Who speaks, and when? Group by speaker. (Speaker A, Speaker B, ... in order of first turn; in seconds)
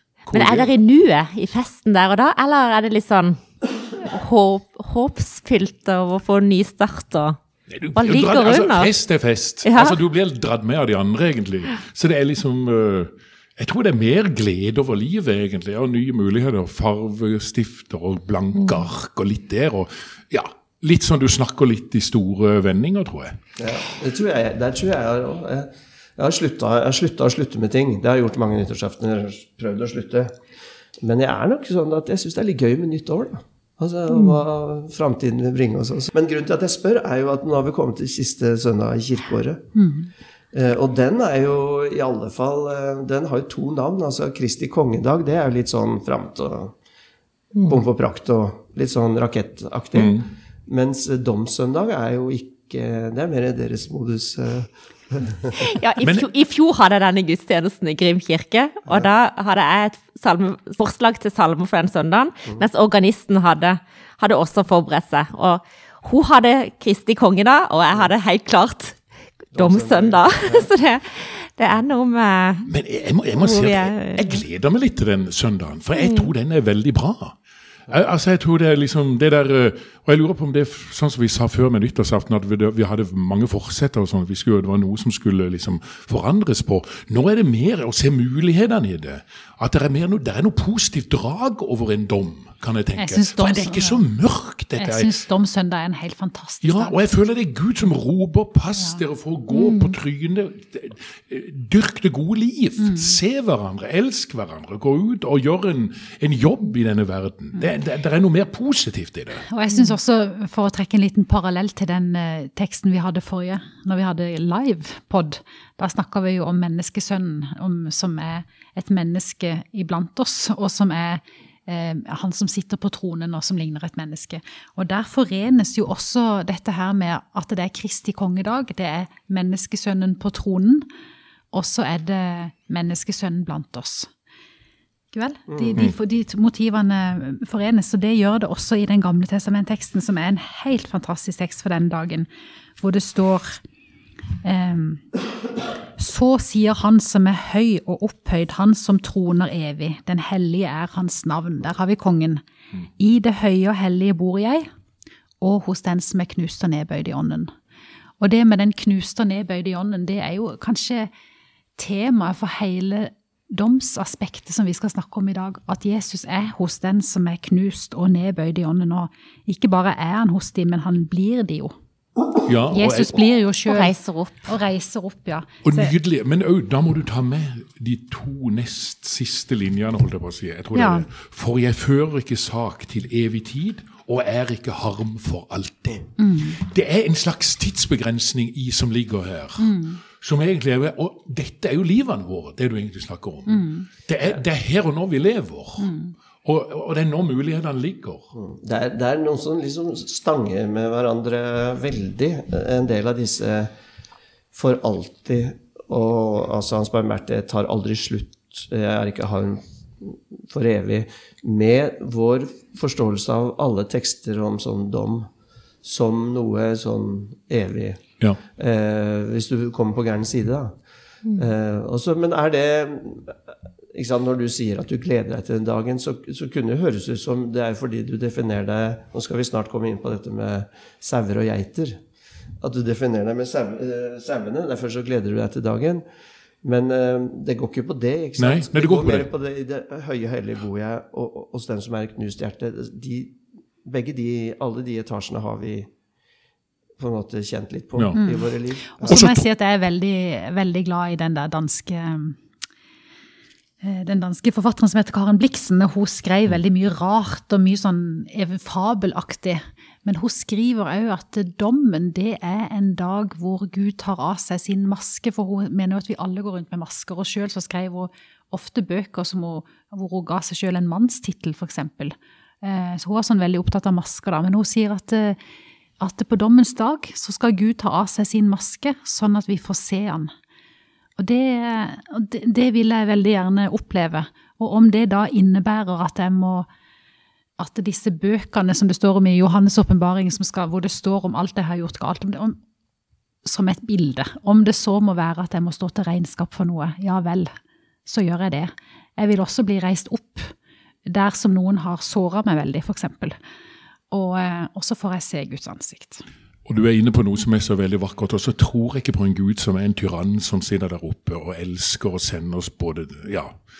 Speaker A: 0.2-0.7, 7.7-23.4, 50.0-50.2, 56.0-56.3, 72.7-77.4, 77.9-95.1, 96.6-109.4, 172.4-173.2, 175.6-195.9, 196.4-198.3, 238.4-239.3, 249.0-249.4, 306.6-313.6
Speaker B: 0.3-7.4, 7.9-8.9, 9.6-10.0, 18.6-18.9, 55.6-69.0, 69.5-72.7, 73.3-74.4, 76.0-76.3, 99.5-100.0, 173.7-174.5
Speaker C: 23.6-30.4, 31.0-39.6, 40.5-46.7, 47.6-55.5, 69.5-70.7, 135.5-135.8, 198.3-203.7, 204.5-215.3, 215.8-218.0, 218.5-220.8, 221.3-223.4, 223.9-232.0, 232.6-236.0, 236.6-245.9, 247.0-249.3
Speaker D: 39.7-40.1, 93.0-94.0, 94.8-97.0, 102.8-103.2, 109.5-130.9, 131.5-134.1, 135.1-142.3, 142.8-143.6, 144.4-145.2, 146.0-152.4, 153.0-154.7, 155.4-157.5, 158.2-161.1, 161.8-171.7, 172.7-175.9, 180.7-181.1, 186.2-186.6, 189.6-190.0, 193.5-193.9, 195.8-196.1, 248.2-252.4, 253.8-275.4, 276.0-280.3, 281.2-286.7, 287.6-292.6, 293.4-297.5, 298.1-300.5, 301.1-303.3, 304.1-306.2